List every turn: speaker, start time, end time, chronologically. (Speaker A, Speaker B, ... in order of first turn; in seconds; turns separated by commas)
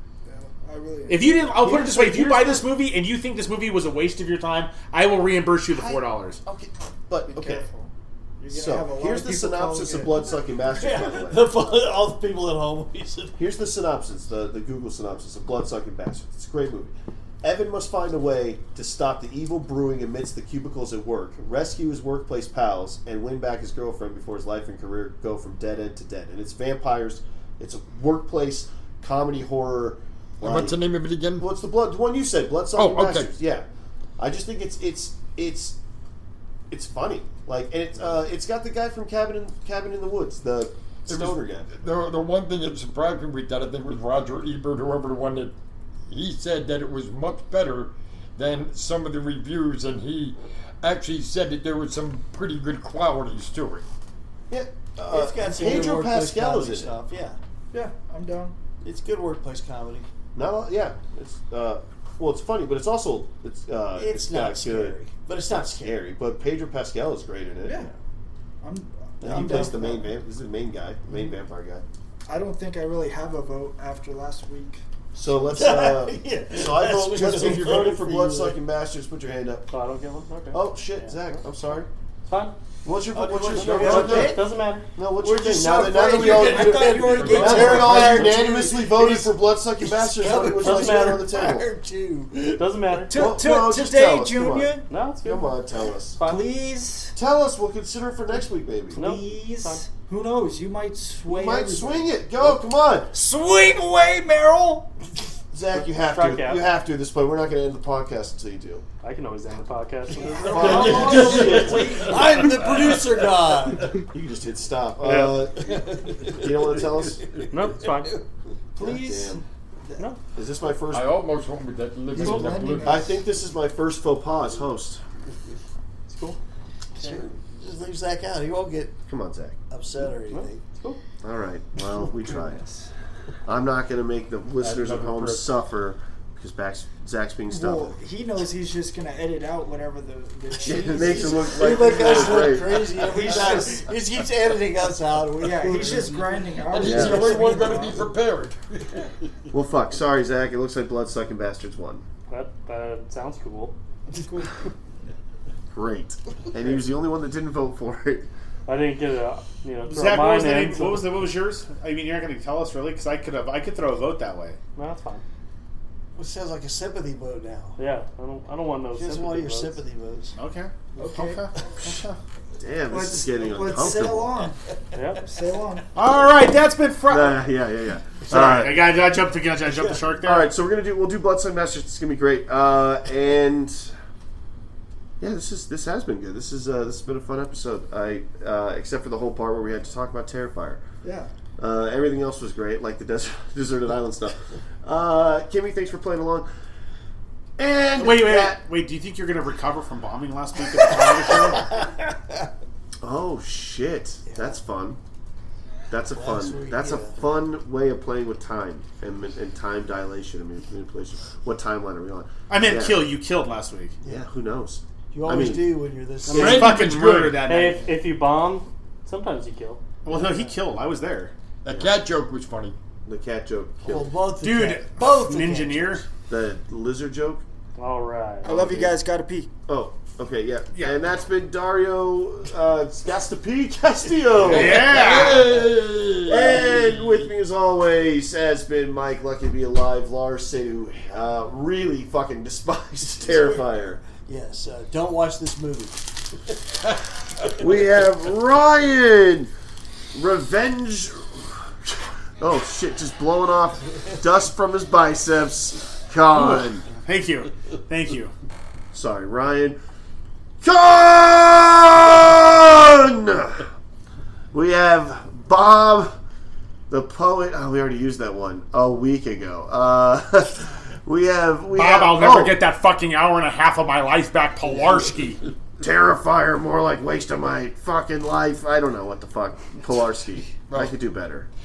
Speaker A: 0.2-2.6, Speaker B: 1.1-6.4, Speaker C: 1.6-2.6, Speaker C: 5.7-7.7, Speaker A: 7.3-10.4, Speaker C: 8.5-11.6, Speaker D: 9.9-13.4, Speaker C: 13.4-30.8, Speaker E: 30.4-31.5, Speaker C: 31.4-33.7, Speaker E: 32.8-33.3, Speaker C: 34.2-35.8, Speaker C: 36.7-41.7, Speaker E: 41.1-45.5, Speaker E: 46.1-53.8, Speaker C: 54.5-56.9, Speaker D: 55.1-57.4, Speaker A: 57.7-58.5, Speaker D: 58.8-60.1, Speaker C: 60.4-65.0, Speaker D: 64.0-66.0, Speaker C: 65.5-67.9, Speaker A: 67.6-67.9, Speaker A: 68.6-70.1, Speaker C: 69.2-71.8, Speaker A: 72.3-74.8, Speaker C: 75.1-79.7, Speaker D: 75.5-78.6, Speaker F: 79.7-81.2, Speaker C: 80.5-81.9, Speaker F: 82.3-82.6, Speaker C: 82.8-84.4, Speaker D: 83.1-84.5, Speaker F: 83.6-84.9, Speaker A: 83.6-84.4, Speaker C: 85.0-91.7, Speaker D: 85.2-93.1, Speaker A: 86.0-88.5, Speaker E: 87.2-88.0, Speaker F: 90.6-91.4, Speaker F: 92.6-93.1, Speaker A: 93.1-94.9, Speaker C: 93.1-96.2, Speaker F: 94.9-95.6, Speaker F: 96.2-96.4, Speaker A: 96.2-97.2, Speaker C: 97.2-99.0, Speaker A: 98.9-104.9, Speaker F: 98.9-99.8, Speaker C: 101.3-103.1, Speaker C: 105.5-108.8, Speaker F: 105.8-106.7, Speaker F: 109.0-111.1, Speaker D: 110.1-114.0, Speaker A: 110.4-112.2, Speaker C: 110.4-112.2, Speaker E: 110.7-112.9, Speaker C: 113.9-117.3, Speaker F: 115.0-115.3, Speaker D: 115.6-118.2, Speaker F: 117.5-118.2, Speaker A: 118.8-120.1, Speaker C: 118.8-119.4, Speaker C: 120.3-121.2, Speaker E: 120.9-123.2, Speaker A: 122.1-123.3, Speaker C: 122.8-125.0, Speaker A: 126.1-126.4, Speaker D: 127.0-129.0, Speaker C: 129.1-129.6, Speaker D: 129.7-130.6, Speaker F: 130.3-131.0, Speaker C: 131.2-132.6, Speaker A: 131.8-132.9, Speaker C: 133.5-138.0, Speaker E: 134.6-135.5, Speaker A: 137.5-144.0, Speaker C: 140.6-143.3, Speaker D: 140.9-146.3, Speaker A: 145.4-148.1, Speaker E: 146.7-148.9, Speaker C: 146.8-147.7, Speaker C: 149.5-152.0, Speaker F: 152.3-153.8, Speaker A: 154.1-154.7, Speaker C: 155.7-158.3, Speaker F: 158.7-161.1, Speaker B: 159.9-164.6, Speaker F: 164.8-165.2, Speaker D: 166.2-167.8, Speaker F: 167.8-169.8, Speaker D: 168.9-170.3, Speaker B: 170.4-172.1, Speaker A: 171.0-171.4, Speaker C: 171.8-174.5, Speaker A: 172.9-174.6, Speaker F: 174.9-175.2, Speaker A: 175.2-175.9, Speaker B: 175.9-177.4, Speaker C: 177.1-178.9, Speaker B: 178.3-180.5, Speaker D: 179.7-180.0, Speaker C: 180.2-183.9, Speaker C: 185.2-190.8, Speaker A: 191.0-191.3, Speaker C: 191.6-196.5, Speaker C: 197.6-198.6, Speaker B: 198.0-201.8, Speaker D: 201.8-202.5, Speaker C: 203.0-205.0, Speaker D: 204.3-204.6, Speaker C: 205.9-213.1, Speaker D: 206.1-207.3, Speaker B: 212.5-213.9, Speaker C: 214.0-215.8, Speaker D: 215.1-216.8, Speaker B: 216.3-217.9, Speaker E: 216.3-217.5, Speaker F: 216.3-216.8, Speaker F: 217.4-219.8, Speaker B: 220.1-221.3, Speaker C: 220.1-220.4, Speaker E: 221.6-222.8, Speaker C: 221.7-221.9, Speaker C: 223.1-224.2, Speaker D: 223.8-226.0, Speaker B: 224.4-226.0, Speaker C: 226.3-227.4, Speaker F: 227.8-228.5, Speaker A: 228.4-229.5, Speaker C: 228.4-229.0, Speaker C: 229.7-235.6, Speaker E: 234.4-237.3, Speaker B: 234.4-235.6, Speaker C: 236.2-244.0, Speaker D: 243.2-243.7, Speaker D: 244.2-246.6, Speaker C: 247.5-249.5, Speaker C: 250.1-256.8, Speaker B: 256.9-258.3, Speaker C: 258.9-259.8, Speaker C: 260.6-263.7, Speaker C: 264.5-266.1, Speaker C: 266.9-272.6, Speaker B: 271.7-275.4, Speaker C: 275.8-281.5, Speaker E: 280.7-280.9